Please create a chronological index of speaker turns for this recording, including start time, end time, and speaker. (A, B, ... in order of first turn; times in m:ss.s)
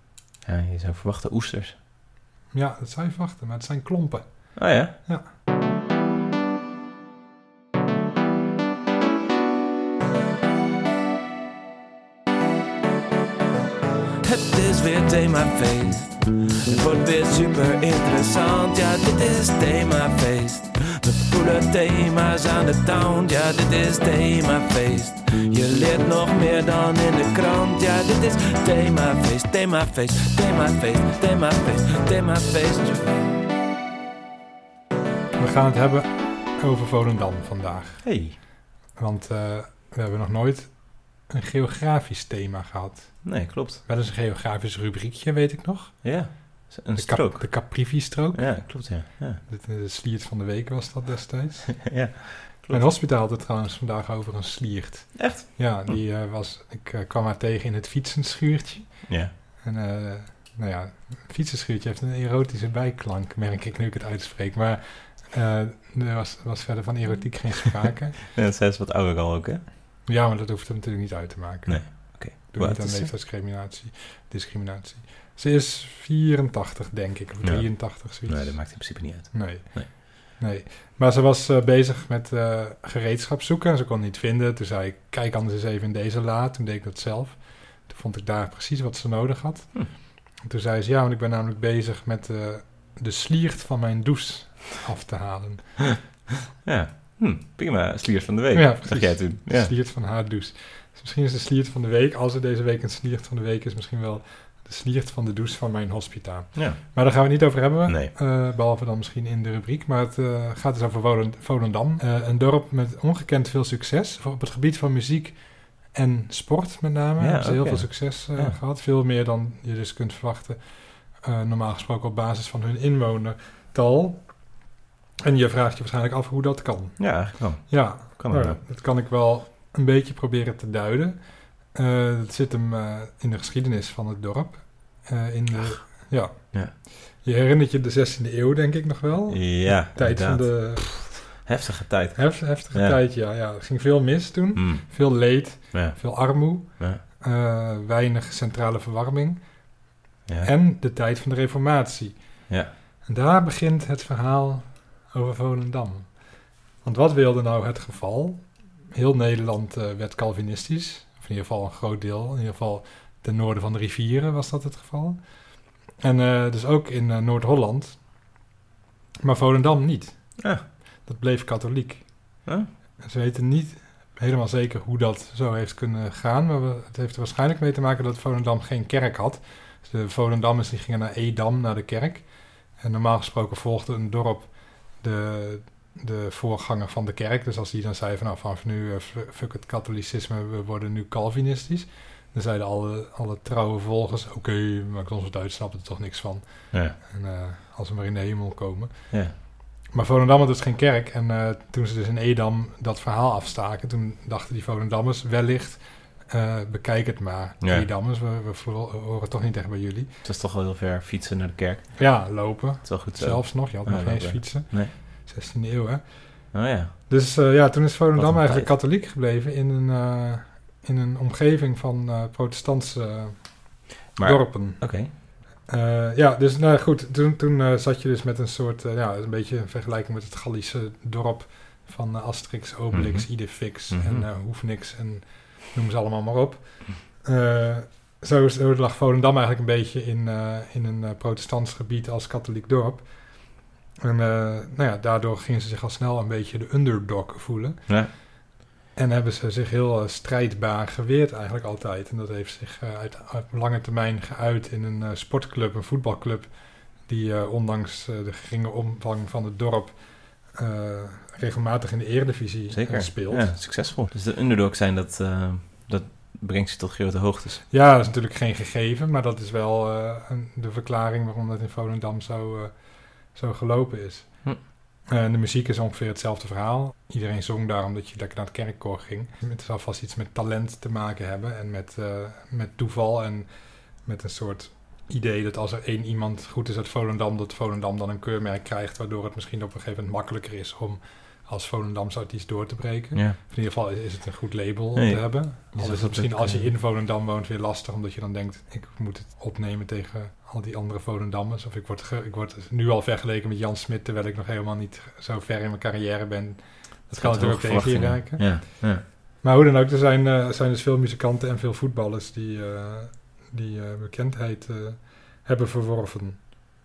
0:00.4-0:01.8 A
0:02.5-0:05.3 B
0:04.6-0:05.0 A
0:14.2-0:33.4 C
0:35.4-0:38.1 B
0:38.0-0:38.4 A
0:39.0-0:46.4 B
0:43.2-0:43.8 A
0:46.0-0:49.4 A
0:46.9-1:08.2 B
0:51.9-0:52.9 A
0:55.2-0:56.0 A
0:59.1-0:59.3 A
1:08.3-1:09.6 A
1:10.1-1:36.2 B
1:11.7-1:13.1 A
1:17.4-1:19.9 A
1:36.6-1:39.7 A
1:38.5-2:04.6 B
1:46.6-1:46.8 A
1:47.9-1:48.1 A
1:57.2-1:58.6 A
2:05.2-2:21.5 B
2:07.0-2:08.6 A
2:19.3-2:23.0 A
2:22.2-2:29.7 B
2:24.6-2:24.8 A
2:25.7-2:26.0 A
2:30.4-2:32.2 B
2:33.0-2:48.2 B
2:49.2-2:52.5 B
2:50.4-2:50.6 A
2:53.0-3:30.1 B
3:27.6-3:27.9 A
3:30.2-3:34.9 A
3:32.0-4:08.3 B
3:36.5-3:36.9 A
3:38.2-3:38.7 A
3:44.2-3:45.1 A
3:52.9-3:54.3 A
4:09.0-4:23.5 B
4:22.7-4:27.6 A
4:27.7-5:16.4 B
4:55.0-4:56.7 A
5:07.2-5:09.0 A